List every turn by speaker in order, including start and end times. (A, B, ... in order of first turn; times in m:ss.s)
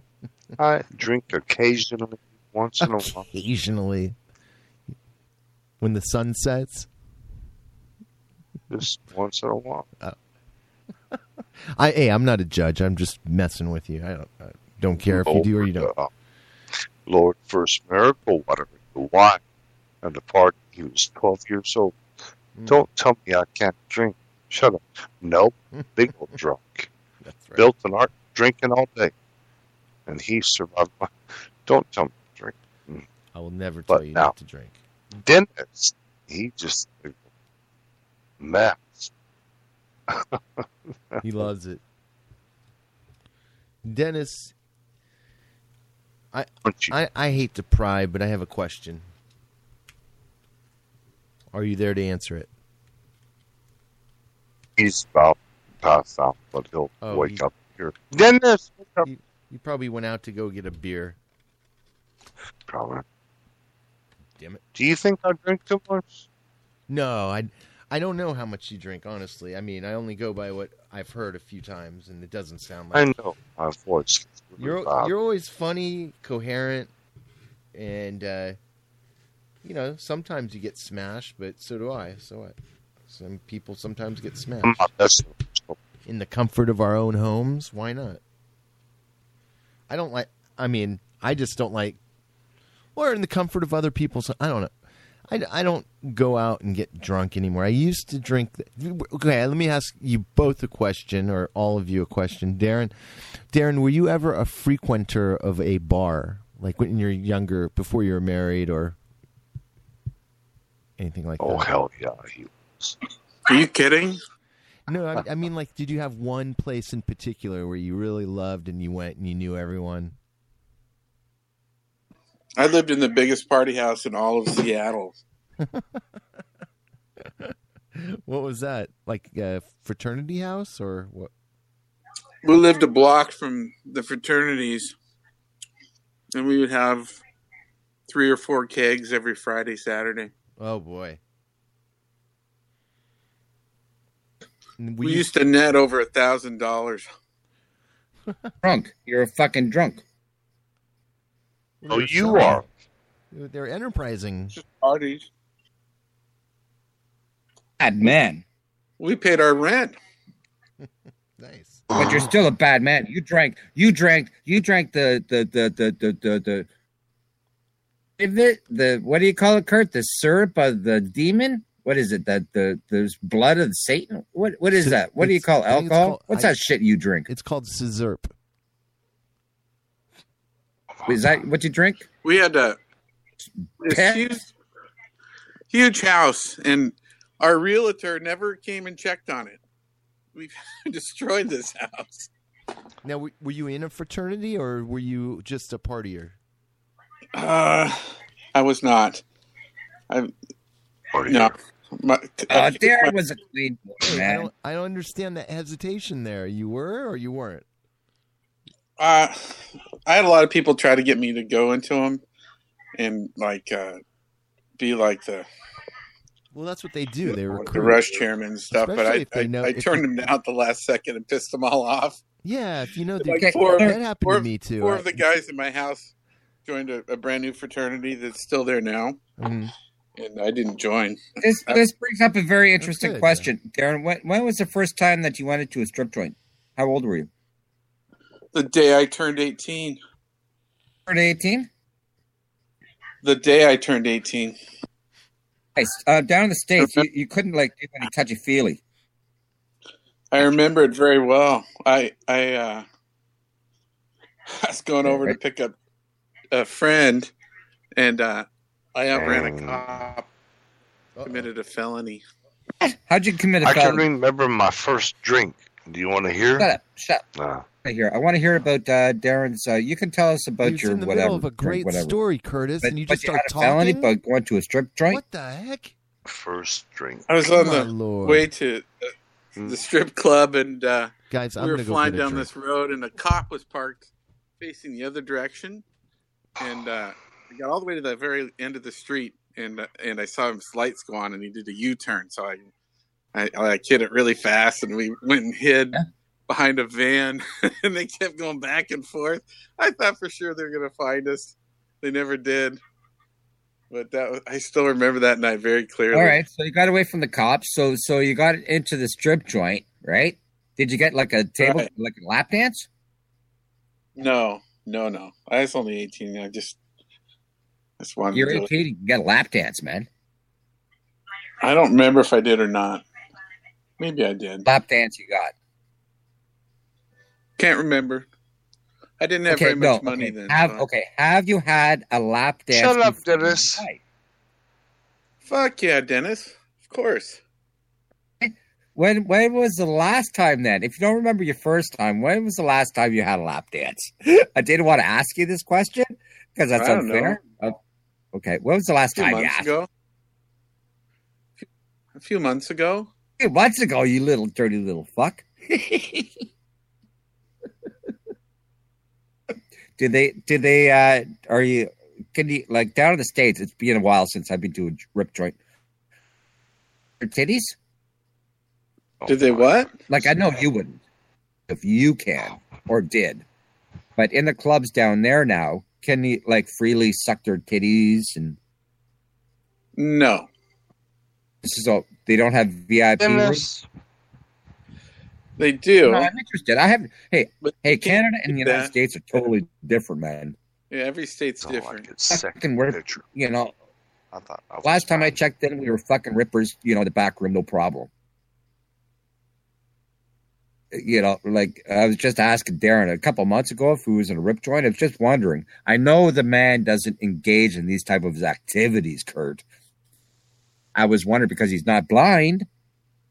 0:00.6-0:03.3 A
0:02.8-0:04.2 B
0:05.8-0:06.9 B
0:08.7-0:09.9 A
0:11.7-0:15.9 B
0:15.1-0:16.1 A
0:17.0-0:19.4 A
0:20.0-0:22.0 A
0:22.6-0:22.8 B
0:22.7-0:26.9 A
0:27.2-0:27.7 B
0:27.6-0:29.1 A
0:30.1-0:31.1 A
0:31.6-0:33.0 A
0:33.3-0:34.8 B
0:33.9-0:34.3 A
0:35.2-0:37.3 A
0:38.4-0:39.1 A
0:40.1-0:41.2 A
0:41.2-0:41.8 B
0:43.8-0:44.5 B
0:46.3-0:49.1 B
0:46.6-0:46.9 A
0:51.5-0:52.5 B
0:54.8-0:59.1 A
0:57.0-0:57.4 B
0:59.0-1:01.2 B
1:02.7-1:03.0 A
1:04.4-1:04.6 B
1:04.8-1:06.3 A
1:06.9-1:13.1 B
1:12.9-1:15.1 A
1:14.6-1:16.9 B
1:17.7-1:18.6 B
1:19.6-1:22.6 B
1:23.1-1:24.8 B
1:24.6-1:25.8 A
1:26.1-1:28.2 B
1:29.9-1:32.0 B
1:33.0-1:34.7 B
1:35.3-1:42.9 B
1:43.5-1:49.0 B
1:51.0-1:51.7 B
1:51.4-1:53.0 A
1:53.5-1:54.2 C
1:54.9-2:00.2 B
2:02.6-2:05.2 C
2:05.6-2:06.0 B
2:07.2-2:11.3 B
2:12.4-2:15.0 C
2:16.3-2:17.1 C
2:18.1-2:20.3 C
2:20.6-2:21.2 B
2:24.8-2:25.3 B
2:25.0-2:27.1 C
2:28.6-2:30.0 D
2:31.8-2:32.6 B
2:31.9-2:32.7 A
2:33.3-2:34.6 B
2:34.6-2:35.3 C
2:37.8-2:38.4 D
2:39.0-2:40.0 C
2:40.8-2:41.9 B
2:42.0-2:46.7 D
2:48.2-2:57.3 D
2:54.7-2:56.6 B
2:57.3-2:58.3 B
3:00.9-3:01.4 A
3:01.1-3:02.1 D
3:02.2-3:02.8 C
3:03.8-3:04.5 C
3:03.8-3:04.3 D
3:05.7-3:09.6 C
3:10.4-3:12.3 C
3:13.0-3:16.4 B
3:17.4-3:18.0 C
3:18.6-3:19.2 C
3:21.1-3:21.6 A
3:21.3-3:23.2 C
3:22.5-3:24.5 D
3:24.0-3:27.6 B
3:29.0-3:29.6 C
3:30.1-3:32.2 C
3:33.0-3:34.0 C
3:34.8-3:35.5 C
3:36.5-3:40.0 B
3:37.5-3:42.2 C
3:42.4-3:45.2 B
3:43.2-3:46.1 C
3:43.4-3:44.0 D
3:46.7-3:49.2 C
3:49.4-3:49.7 B
3:50.2-3:51.8 C
3:51.4-3:57.3 D
3:52.8-3:53.5 B
3:58.5-4:00.0 C
4:01.1-4:01.7 D
4:03.2-4:04.6 C
4:05.8-4:08.8 D
4:06.8-4:07.1 C
4:10.3-4:12.9 C
4:14.5-4:15.8 C
4:15.0-4:15.4 D
4:16.5-4:17.3 C
4:18.0-4:20.2 C
4:19.1-4:20.1 A
4:21.2-4:21.5 B
4:21.2-4:22.2 C
4:22.8-4:24.0 D
4:23.6-4:26.7 A
4:26.6-4:27.2 D
4:27.4-4:27.6 A
4:27.8-4:32.2 D
4:30.6-4:34.1 B
4:32.8-4:35.2 D
4:35.1-4:35.9 B
4:36.3-4:37.4 A
4:37.3-4:38.9 C
4:37.5-4:38.5 B
4:39.6-4:44.1 C
4:41.3-4:42.5 B
4:44.6-4:45.8 C
4:46.6-4:52.7 C
4:53.3-5:02.8 C
5:03.9-5:06.4 C
5:06.1-5:12.9 D
5:11.6-5:11.9 C
5:14.2-5:16.8 C
5:18.0-5:18.7 C
5:18.3-5:20.1 D
5:21.6-5:23.0 C
5:24.0-5:24.7 C
5:24.7-5:25.5 D
5:27.6-5:28.3 C
5:29.2-5:30.9 C
5:29.5-5:34.0 D
5:32.7-5:33.9 A
5:35.4-5:37.4 C
5:38.4-5:47.8 D
5:46.8-5:47.4 C
5:48.3-5:49.7 D
5:49.2-5:49.9 C
5:52.2-5:53.1 C
5:53.4-5:56.4 D
6:00.0-6:05.6 D
6:07.2-6:07.8 D
6:09.2-6:10.5 A
6:09.3-6:09.9 C
6:10.1-6:11.0 D
6:11.7-6:13.4 D
6:14.2-6:18.6 D
6:20.0-6:20.5 C
6:21.6-6:23.7 D
6:23.2-6:23.9 A
6:25.6-6:26.3 C
6:26.0-6:30.6 D
6:27.6-6:28.9 C
6:30.9-6:32.1 C
6:31.6-6:33.3 A
6:32.3-6:33.7 D
6:34.3-6:35.4 A
6:34.8-6:38.1 D
6:40.9-6:49.6 D
6:51.0-6:52.7 D